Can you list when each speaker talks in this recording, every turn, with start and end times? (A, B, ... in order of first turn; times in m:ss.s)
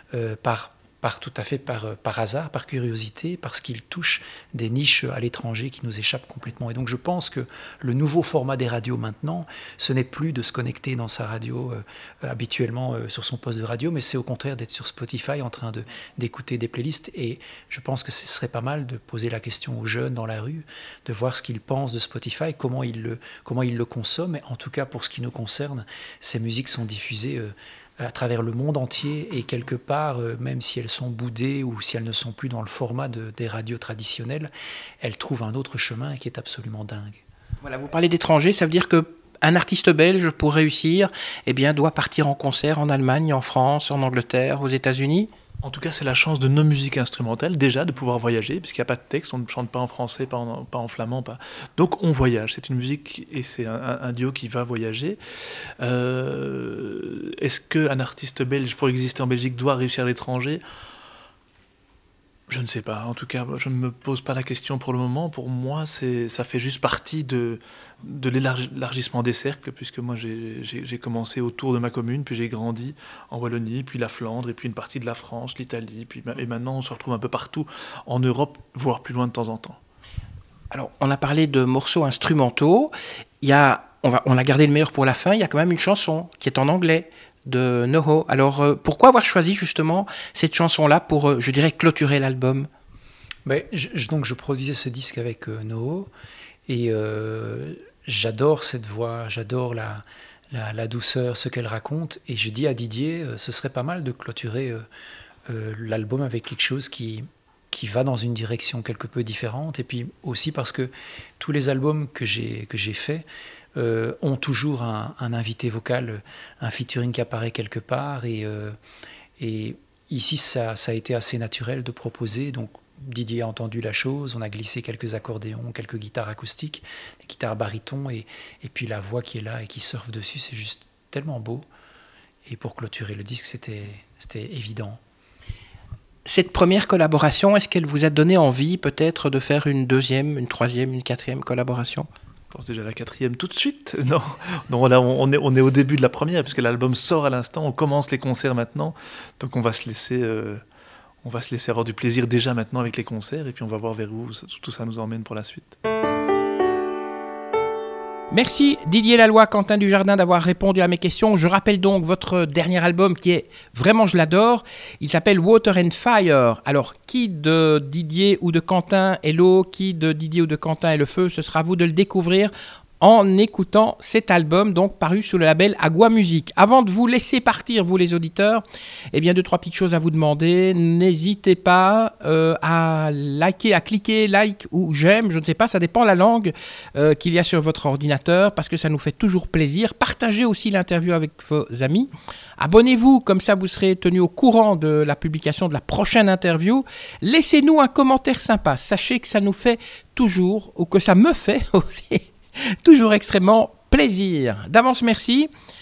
0:00.1-0:34.5 A
0:35.0-0:37.2 A
0:37.6-0:45.3 B
0:45.6-0:55.2 C
0:55.8-1:00.6 C
1:02.5-1:19.8 C
1:20.7-1:32.7 B
1:33.4-1:36.1 A
1:36.7-1:44.8 A
1:45.5-1:58.8 A
1:59.4-2:11.6 A
2:12.4-2:15.0 A
2:16.2-2:22.1 B
2:22.5-2:30.6 C
2:31.2-2:35.7 C
2:38.3-3:25.5 B